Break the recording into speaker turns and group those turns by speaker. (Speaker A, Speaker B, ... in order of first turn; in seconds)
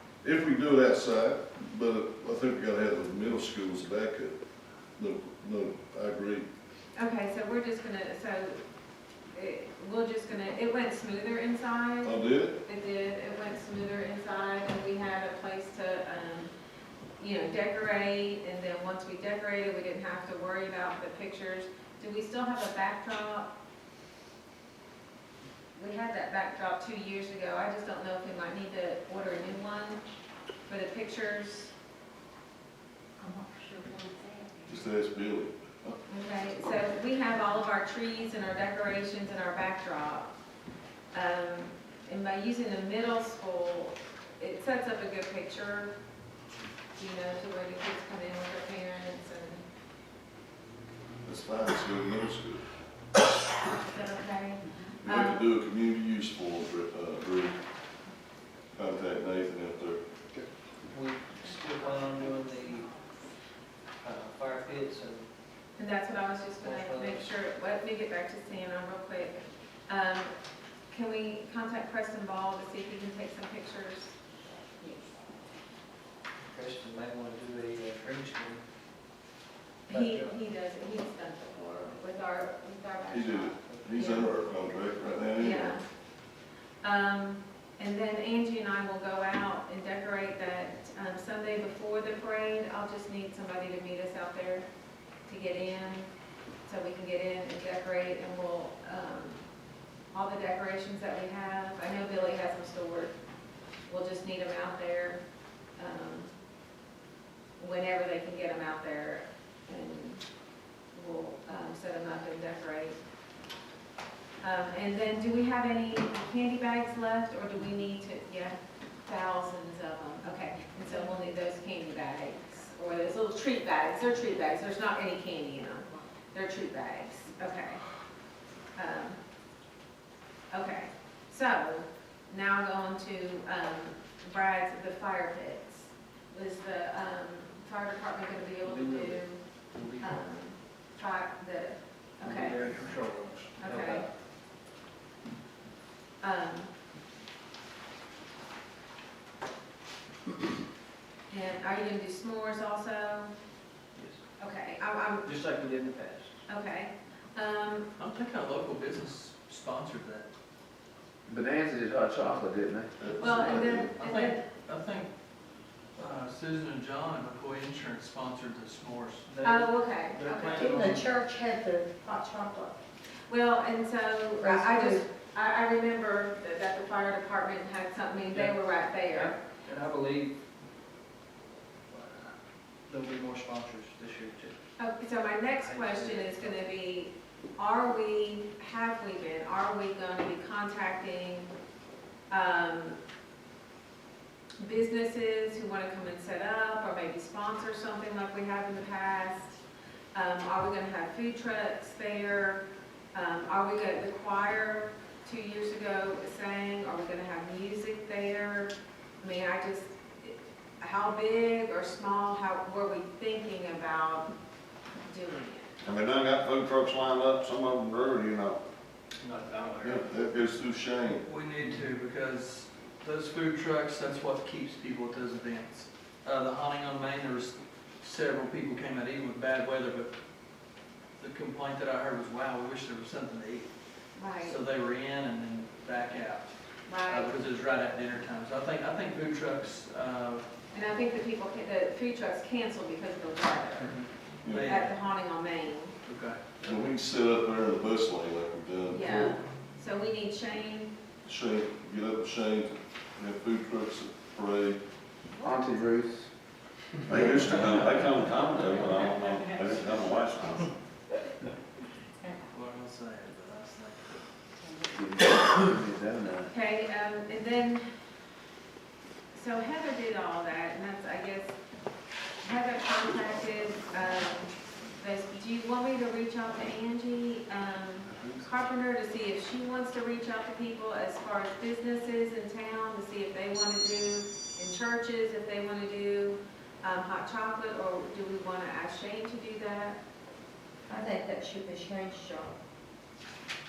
Speaker A: 0.2-4.4, 5.0-6.5, 12.0-12.6, 34.7-36.0, 51.2-52.6, 55.0-57.6, 58.7-60.0, 83.1-85.8, 142.3-143.4, 163.0-163.9, 219.8-221.2, 244.4-244.7, 246.6-249.4, 251.2-254.8
Speaker B: 7.0-8.6, 9.3-16.5, 17.2-23.5, 25.8-30.0, 30.7-31.7, 36.1-40.3, 41.1-46.0, 47.0-49.7, 53.8-55.5, 65.8-70.3, 70.9-74.2, 74.8-75.1, 79.9-84.3, 85.4-85.8, 86.8-94.7, 95.3-96.1, 96.7-99.5, 100.1-103.1, 103.9-105.2, 105.8-106.3, 107.6-110.2, 110.9-113.0, 114.4-127.8, 128.7-129.2, 130.5-139.4, 140.0-142.6, 143.6-144.1, 146.2-146.7, 151.3-153.3, 154.4-155.3, 156.5-157.9, 163.2-164.4, 169.4-170.7, 173.3-179.4, 184.8-191.5, 192.3-193.0, 194.6-199.6, 200.1-214.3, 215.1-215.7, 234.2-234.6, 236.9-237.3, 240.7-244.0, 244.5-245.9, 248.9-250.9, 266.5-267.8, 269.3-271.5, 272.4-290.0
Speaker C: 33.2-34.5, 170.5-172.7, 174.4-175.0, 290.9-292.6
Speaker D: 60.9-62.9, 64.0-65.3, 66.6-67.2, 76.4-78.6, 79.9-80.4, 83.7-84.1, 138.6-140.2, 155.2-156.3, 169.4-170.4, 178.3-180.3, 181.9-182.3, 182.9-184.6, 185.6-186.7
Speaker E: 142.4-144.0, 158.0-160.3, 163.4-165.1, 165.9-169.6, 170.2-171.1, 219.2-220.0, 221.2-230.1, 231.2-233.7, 234.4-240.4, 243.8-244.9, 246.0-246.4, 257.4-257.8, 262.5-264.3
Speaker F: 161.3-162.9, 255.4-256.3, 264.9-266.5
Speaker G: 215.8-218.6, 257.1-260.7